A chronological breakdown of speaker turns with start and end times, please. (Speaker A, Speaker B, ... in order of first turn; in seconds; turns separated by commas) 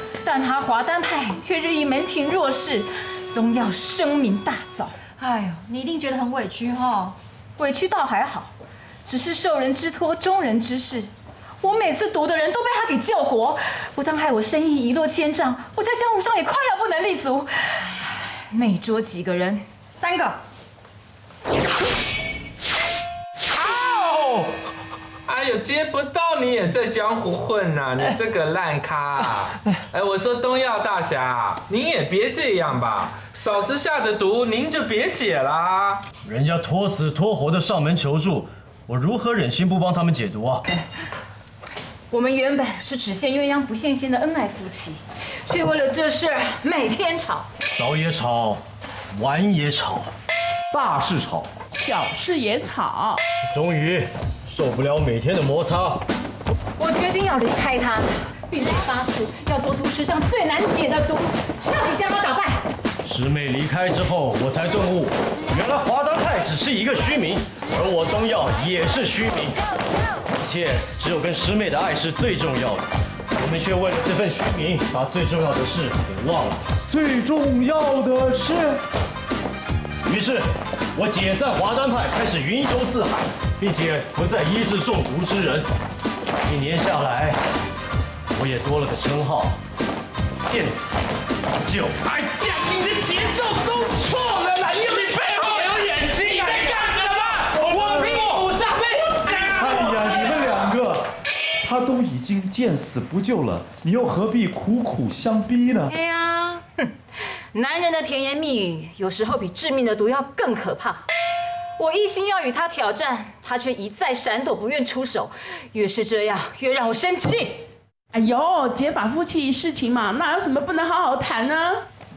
Speaker A: 0.2-5.0, Speaker B: 5.2-7.2, Speaker A: 7.6-8.5, Speaker A: 9.1-11.1, Speaker A: 11.6-19.6, Speaker B: 19.9-20.4, Speaker C: 23.5-24.6, Speaker C: 25.3-36.0, Speaker D: 36.2-40.6, Speaker A: 42.1-47.5, Speaker D: 47.7-48.6, Speaker D: 49.1-50.1, Speaker E: 50.7-51.5, Speaker F: 51.8-53.2, Speaker D: 53.5-56.1, Speaker A: 56.8-62.6, Speaker D: 63.0-69.6, Speaker D: 70.4-76.6, Speaker E: 76.9-78.8, Speaker D: 80.1-85.7, Speaker D: 86.4-87.4, Speaker D: 88.3-89.6, Speaker D: 90.5-91.0, Speaker D: 91.6-92.1, Speaker C: 92.0-100.5, Speaker E: 97.8-98.2, Speaker E: 99.5-105.9, Speaker B: 105.9-106.6, Speaker A: 107.5-111.1, Speaker A: 111.8-117.7, Speaker F: 118.1-121.9